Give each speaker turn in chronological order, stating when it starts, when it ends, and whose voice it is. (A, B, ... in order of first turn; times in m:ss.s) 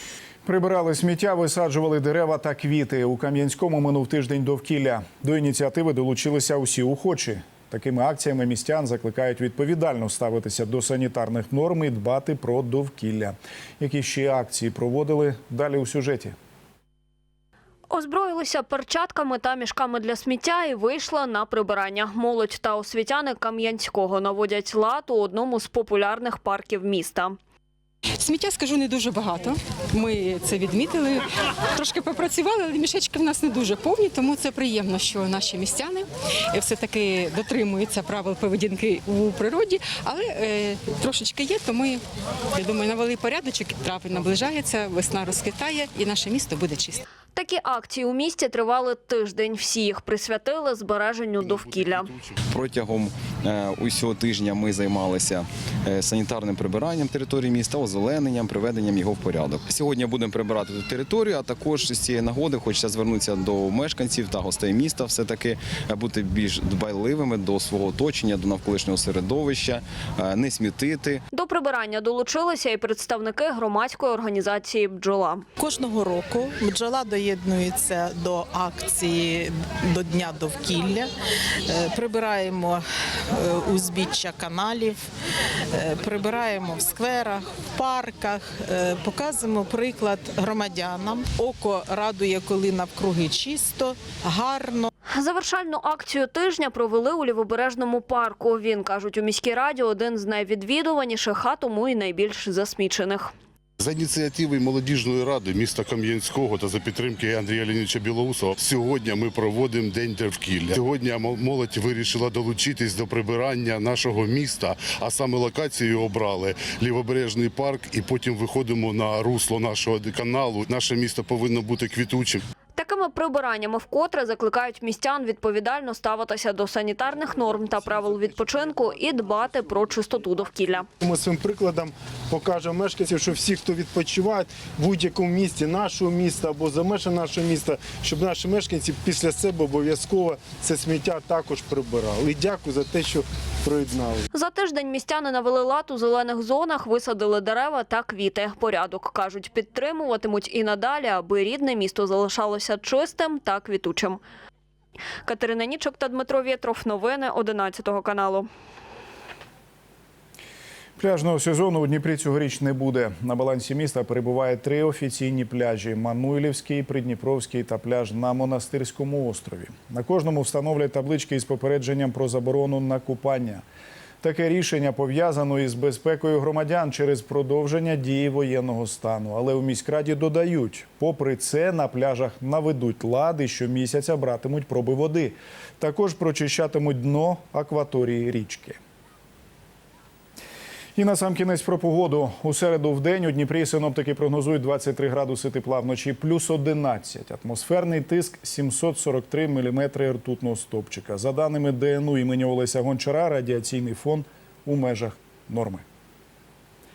0:00.4-0:16.4 A
0:17.9-0:27.4 B
0:28.2-0:42.0 C
0:42.5-0:47.0 C
0:47.4-0:52.1 B
0:51.4-0:52.4 D
0:52.5-1:11.2 E
1:11.3-1:15.4 B
1:15.6-1:21.1 F
1:21.7-1:25.0 F
1:25.7-1:34.9 F
1:35.1-1:43.3 B
1:43.8-2:02.4 D
2:02.8-2:10.9 B
2:11.0-2:24.3 G
2:24.3-2:34.2 B
2:35.3-2:38.5 B
2:41.0-2:53.6 A
2:54.2-3:08.8 A
3:11.0-3:25.8 A